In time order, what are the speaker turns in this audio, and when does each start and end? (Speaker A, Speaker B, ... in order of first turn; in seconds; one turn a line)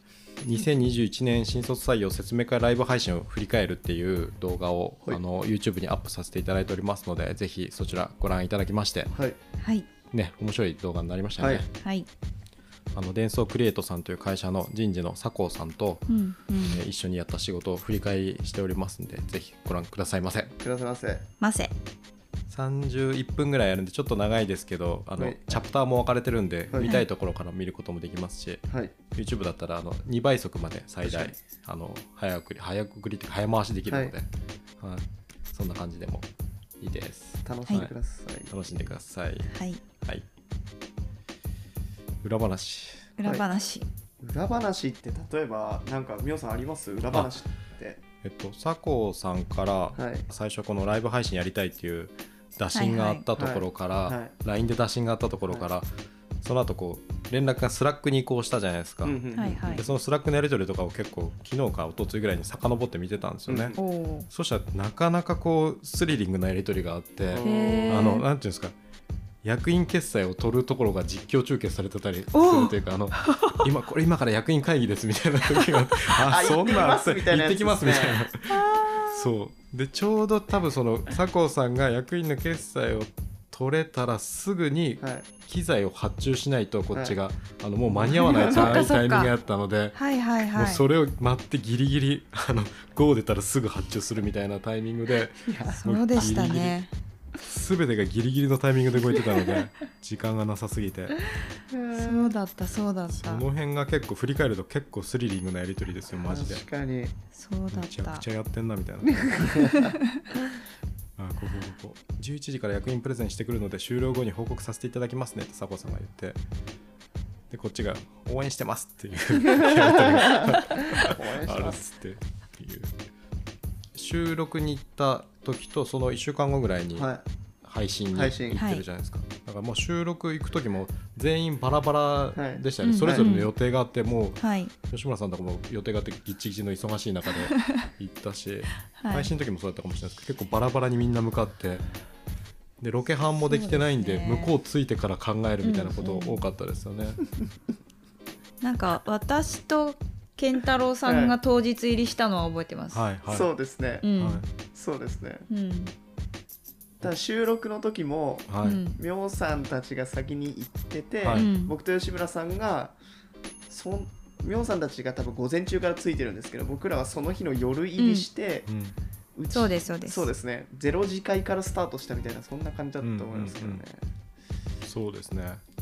Speaker A: 0.4-9.1
Speaker B: 9.6-9.9
Speaker A: 10.1-11.7
Speaker C: 11.4-11.7
Speaker B: 11.8-12.1
Speaker A: 12.9-16.1
Speaker B: 16.1-16.8
Speaker A: 16.6-20.5
Speaker C: 20.6-21.2
Speaker B: 21.4-21.7
Speaker A: 22.5-34.3
Speaker C: 25.2-25.6
Speaker C: 26.7-26.9
Speaker C: 31.0-31.3
Speaker A: 34.8-36.3
Speaker A: 36.8-37.9
Speaker C: 37.5-38.5
Speaker A: 38.5-39.5
Speaker B: 39.5-39.8
Speaker A: 42.2-43.1
Speaker B: 43.2-43.9
Speaker C: 44.2-48.0
Speaker A: 48.2-55.9
Speaker C: 50.0-50.3
Speaker B: 52.7-53.2
Speaker C: 53.4-54.3
Speaker A: 56.4-63.8
Speaker C: 59.0-59.8
Speaker B: 59.4-59.9
Speaker C: 63.5-63.8
Speaker B: 63.8-64.3
Speaker A: 64.3-68.8
Speaker C: 67.3-68.1
Speaker B: 67.4-68.2
Speaker A: 69.4-90.0
Speaker B: 72.3-73.6
Speaker C: 76.2-78.3
Speaker B: 78.5-79.3
Speaker C: 85.0-85.3
Speaker C: 86.9-87.2
Speaker C: 87.9-88.8
Speaker B: 88.4-89.3
Speaker B: 89.9-90.8
Speaker A: 90.5-96.8
Speaker C: 95.5-95.8
Speaker B: 95.7-96.9
Speaker A: 97.4-101.2
Speaker C: 101.7-102.3
Speaker B: 101.9-103.5
Speaker A: 103.1-106.6
Speaker C: 106.3-107.1
Speaker B: 107.3-108.2
Speaker A: 107.7-109.5
Speaker C: 109.0-109.9
Speaker B: 109.6-110.2
Speaker A: 111.2-116.4
Speaker A: 117.5-123.0
Speaker C: 119.7-121.8
Speaker A: 123.9-127.1
Speaker C: 127.0-127.2
Speaker A: 127.6-141.8
Speaker C: 128.1-128.6
Speaker B: 128.6-128.8
Speaker C: 132.4-133.3
Speaker B: 132.8-133.5
Speaker B: 134.4-134.7
Speaker B: 137.6-137.9
Speaker B: 138.9-139.3
Speaker A: 142.8-147.2
Speaker B: 143.4-144.5
Speaker B: 145.6-146.4
Speaker B: 148.6-153.1
Speaker C: 151.1-151.4
Speaker A: 152.9-153.5
Speaker C: 153.3-154.1
Speaker B: 154.0-154.4
Speaker A: 154.2-154.5
Speaker C: 154.7-155.5
Speaker B: 155.5-155.9
Speaker C: 157.0-163.0
Speaker A: 158.5-158.8
Speaker B: 158.6-159.0
Speaker A: 161.2-161.5
Speaker B: 161.3-161.7
Speaker C: 163.7-168.7
Speaker B: 168.0-168.3
Speaker A: 168.7-169.0
Speaker C: 169.4-174.0
Speaker B: 169.5-170.3
Speaker A: 173.0-173.8
Speaker A: 174.8-175.6